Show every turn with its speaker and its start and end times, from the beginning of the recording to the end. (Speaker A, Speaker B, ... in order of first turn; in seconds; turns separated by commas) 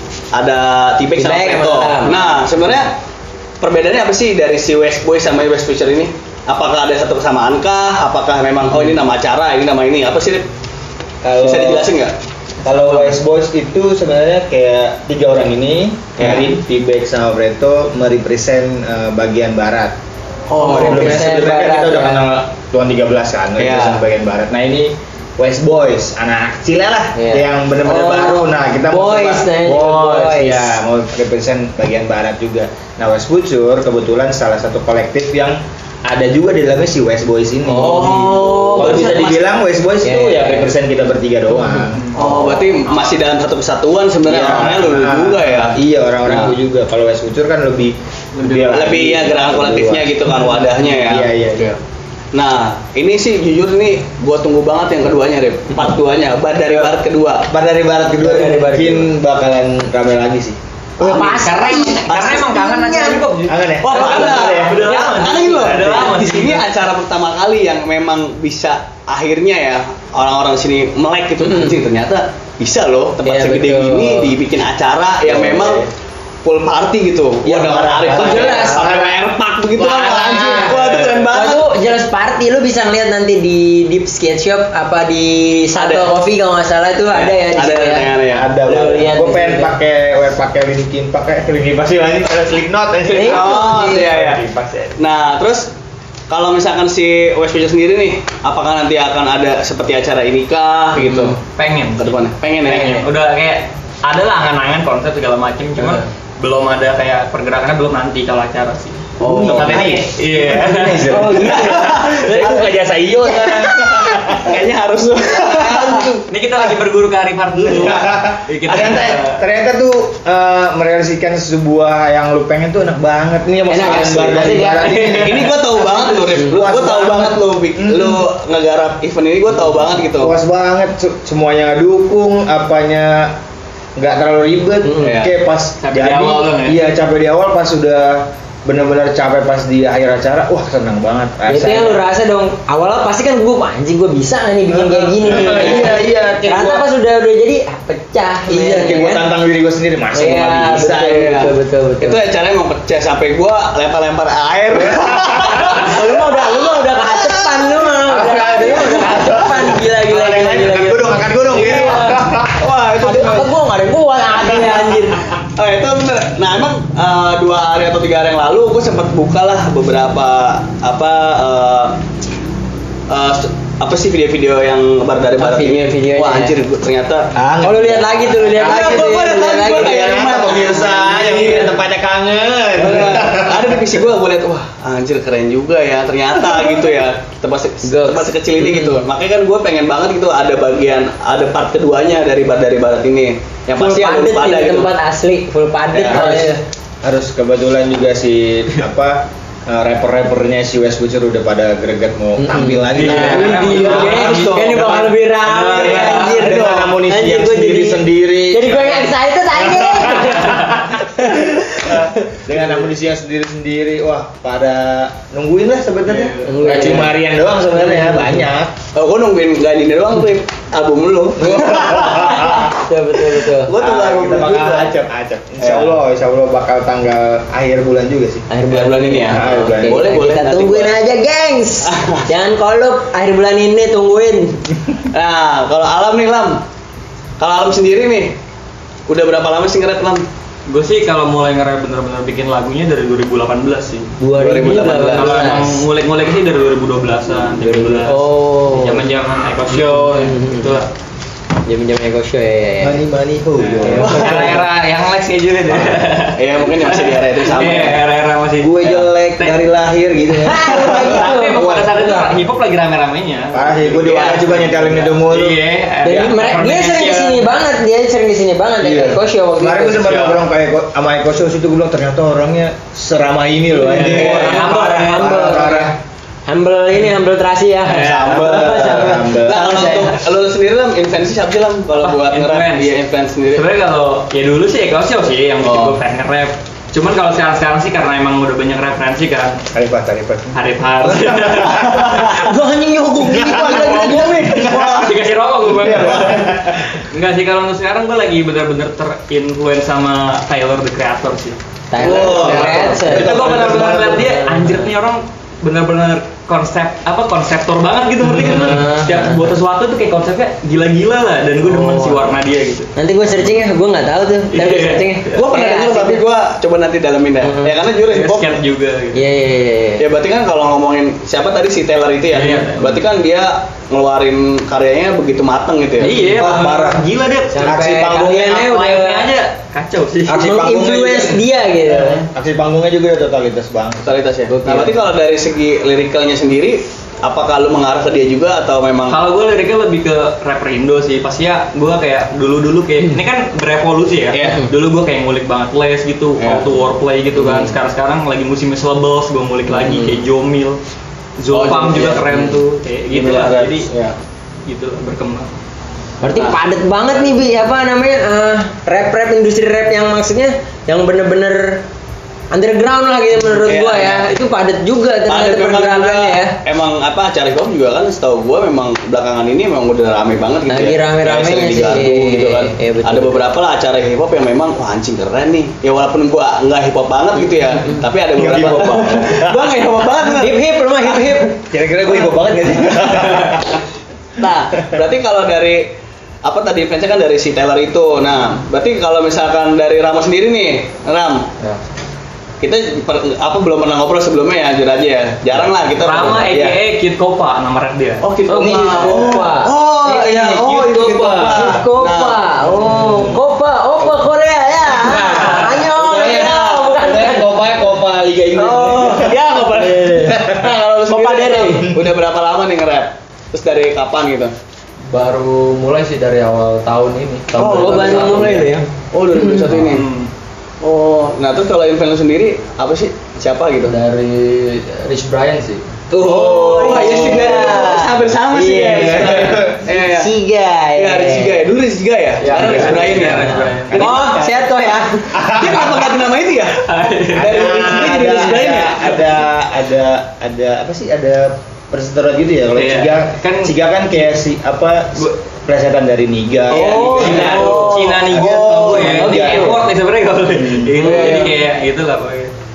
Speaker A: 0.3-2.9, Speaker B: 1.1-2.3, Speaker A: 3.6-10.5, Speaker C: 11.2-11.9, Speaker A: 11.3-12.1, Speaker C: 12.6-19.9, Speaker A: 16.2-16.5, Speaker A: 20.5-21.3, Speaker B: 20.6-22.3, Speaker C: 20.7-42.5, Speaker A: 23.6-24.0, Speaker B: 27.1-30.8, Speaker B: 37.7-39.2, Speaker A: 37.7-39.6, Speaker D: 38.9-39.2, Speaker B: 40.0-40.7, Speaker B: 41.6-41.9, Speaker D: 42.0-43.3, Speaker A: 42.1-46.5, Speaker C: 44.2-51.8, Speaker D: 48.4-48.8, Speaker A: 48.7-51.3, Speaker A: 52.3-57.5, Speaker C: 57.5-60.6, Speaker B: 58.2-59.1, Speaker B: 61.0-63.3, Speaker A: 61.0-62.4, Speaker D: 61.3-66.7, Speaker C: 63.5-64.9, Speaker A: 63.8-75.8, Speaker B: 64.0-65.5, Speaker B: 71.4-71.8, Speaker B: 73.2-74.3, Speaker C: 75.2-75.9, Speaker A: 76.4-81.7, Speaker C: 77.4-79.2, Speaker B: 78.1-78.8, Speaker C: 79.8-81.2, Speaker B: 80.3-80.7, Speaker B: 81.3-89.7, Speaker A: 85.8-86.1, Speaker A: 87.1-88.5, Speaker C: 88.3-95.0, Speaker B: 93.1-94.2, Speaker A: 93.1-94.4, Speaker A: 95.0-95.7, Speaker A: 96.3-101.4, Speaker B: 101.0-101.4, Speaker D: 101.0-111.2, Speaker A: 102.0-103.1, Speaker C: 109.2-114.6, Speaker A: 109.2-109.9, Speaker B: 111.1-112.4, Speaker A: 111.3-112.7, Speaker A: 113.3-116.1, Speaker C: 115.4-116.8, Speaker D: 116.3-119.4, Speaker C: 117.6-128.2, Speaker A: 117.8-118.1, Speaker B: 123.7-125.3, Speaker A: 125.1-130.3, Speaker C: 130.2-133.4, Speaker C: 134.0-142.1, Speaker B: 134.8-135.2, Speaker A: 135.0-135.3, Speaker D: 135.8-136.8, Speaker B: 141.5-149.3, Speaker C: 144.7-146.9, Speaker A: 145.4-145.9, Speaker C: 148.5-151.2, Speaker B: 150.1-152.2, Speaker A: 150.8-157.8, Speaker C: 154.9-155.7, Speaker B: 155.7-162.2, Speaker C: 158.0-162.6, Speaker A: 162.5-163.5, Speaker B: 163.0-165.3, Speaker A: 164.5-164.9, Speaker A: 165.6-172.0, Speaker A: 173.1-177.3, Speaker B: 175.4-176.6, Speaker C: 177.3-184.0, Speaker B: 177.6-180.1, Speaker A: 178.6-181.8, Speaker A: 182.8-194.9, Speaker B: 187.8-189.0, Speaker B: 193.8-196.6, Speaker A: 195.9-196.2, Speaker C: 196.0-204.9, Speaker B: 202.4-212.1, Speaker D: 202.9-206.5, Speaker A: 203.2-205.1, Speaker A: 205.7-206.7, Speaker C: 205.8-218.7, Speaker D: 216.1-216.9, Speaker B: 216.4-217.2, Speaker B: 217.7-218.4, Speaker A: 218.9-222.7, Speaker C: 221.4-222.7, Speaker B: 222.7-223.7, Speaker A: 223.5-224.9, Speaker C: 223.7-228.5, Speaker A: 225.6-225.9, Speaker B: 228.5-234.6, Speaker A: 228.7-230.9, Speaker C: 229.3-230.0, Speaker A: 231.8-232.2, Speaker A: 235.1-236.6, Speaker A: 237.4-238.4, Speaker A: 239.1-240.3, Speaker D: 240.7-244.1, Speaker B: 244.2-245.8, Speaker A: 244.3-245.5, Speaker D: 244.7-250.9, Speaker B: 247.6-249.1, Speaker B: 249.9-250.7, Speaker B: 251.7-253.0, Speaker C: 252.8-254.6, Speaker B: 253.8-254.2, Speaker D: 253.9-259.6, Speaker A: 254.0-254.6, Speaker A: 256.3-258.0, Speaker C: 258.6-262.3, Speaker B: 260.3-261.6, Speaker D: 260.9-267.5, Speaker C: 263.5-266.4, Speaker A: 263.9-264.6, Speaker B: 266.0-270.3, Speaker C: 268.8-275.9, Speaker B: 273.8-275.9, Speaker D: 273.9-275.6, Speaker A: 273.9-274.6, Speaker B: 276.5-280.2, Speaker D: 277.9-278.7, Speaker A: 277.9-283.6, Speaker C: 278.3-279.9, Speaker D: 282.0-282.9, Speaker D: 283.5-289.6, Speaker A: 285.6-286.0, Speaker C: 289.7-292.6, Speaker D: 290.5-292.4, Speaker B: 292.4-294.3, Speaker C: 293.2-294.8, Speaker A: 293.4-295.2, Speaker D: 294.4-301.6, Speaker A: 295.8-296.5, Speaker C: 295.8-296.8, Speaker B: 301.9-304.8, Speaker A: 302.0-304.1, Speaker C: 302.0-304.2, Speaker D: 302.2-312.9, Speaker B: 308.3-309.4, Speaker B: 311.6-312.3, Speaker B: 313.0-316.2, Speaker D: 314.5-315.4, Speaker A: 315.4-318.6, Speaker B: 317.4-317.7, Speaker D: 318.0-319.2, Speaker B: 319.1-320.1, Speaker A: 320.0-326.3, Speaker D: 322.3-323.0, Speaker D: 326.0-327.7, Speaker B: 326.0-326.4, Speaker C: 326.3-327.0, Speaker B: 327.5-329.3, Speaker C: 327.6-328.7, Speaker D: 328.4-330.5, Speaker C: 330.3-334.2, Speaker B: 330.3-332.2, Speaker A: 334.1-339.2, Speaker B: 334.5-335.0, Speaker D: 339.1-350.8, Speaker A: 344.3-344.6, Speaker B: 344.4-344.7, Speaker A: 346.4-346.6, Speaker B: 347.4-347.7, Speaker D: 351.4-353.9, Speaker A: 351.5-352.5, Speaker A: 353.1-354.2, Speaker D: 354.7-355.6, Speaker B: 356.2-361.8, Speaker A: 356.3-356.6, Speaker B: 362.5-366.6, Speaker A: 363.5-364.2, Speaker A: 365.3-381.4, Speaker B: 370.7-373.4, Speaker C: 378.3-379.8, Speaker B: 380.2-381.6, Speaker C: 381.6-383.8, Speaker A: 382.2-383.3, Speaker A: 384.4-385.9, Speaker A: 386.4-391.5, Speaker A: 392.6-396.8, Speaker D: 396.0-398.3, Speaker A: 398.2-402.4, Speaker B: 398.5-399.7, Speaker C: 398.6-399.5, Speaker C: 400.0-401.8, Speaker B: 401.5-407.6, Speaker C: 404.9-410.8, Speaker A: 406.0-406.9, Speaker A: 408.6-414.5, Speaker B: 408.7-410.3, Speaker B: 411.1-411.9, Speaker E: 415.1-418.7, Speaker A: 417.5-420.1, Speaker B: 417.6-419.7, Speaker D: 419.8-420.3, Speaker A: 420.8-424.0, Speaker E: 423.9-425.9, Speaker A: 426.1-430.3, Speaker B: 426.2-431.6, Speaker C: 428.9-429.8, Speaker A: 430.9-434.4, Speaker E: 432.4-432.8, Speaker D: 432.5-434.3, Speaker C: 432.5-433.3, Speaker C: 433.9-434.7, Speaker B: 433.9-435.4, Speaker C: 435.3-436.1, Speaker A: 435.4-436.8, Speaker D: 436.8-437.9, Speaker A: 437.4-439.3, Speaker C: 437.4-449.8, Speaker D: 442.8-443.7, Speaker B: 446.7-448.2, Speaker A: 446.7-449.3, Speaker D: 446.8-452.5, Speaker B: 448.9-449.8, Speaker C: 450.6-450.9, Speaker B: 451.0-451.5, Speaker A: 451.0-451.4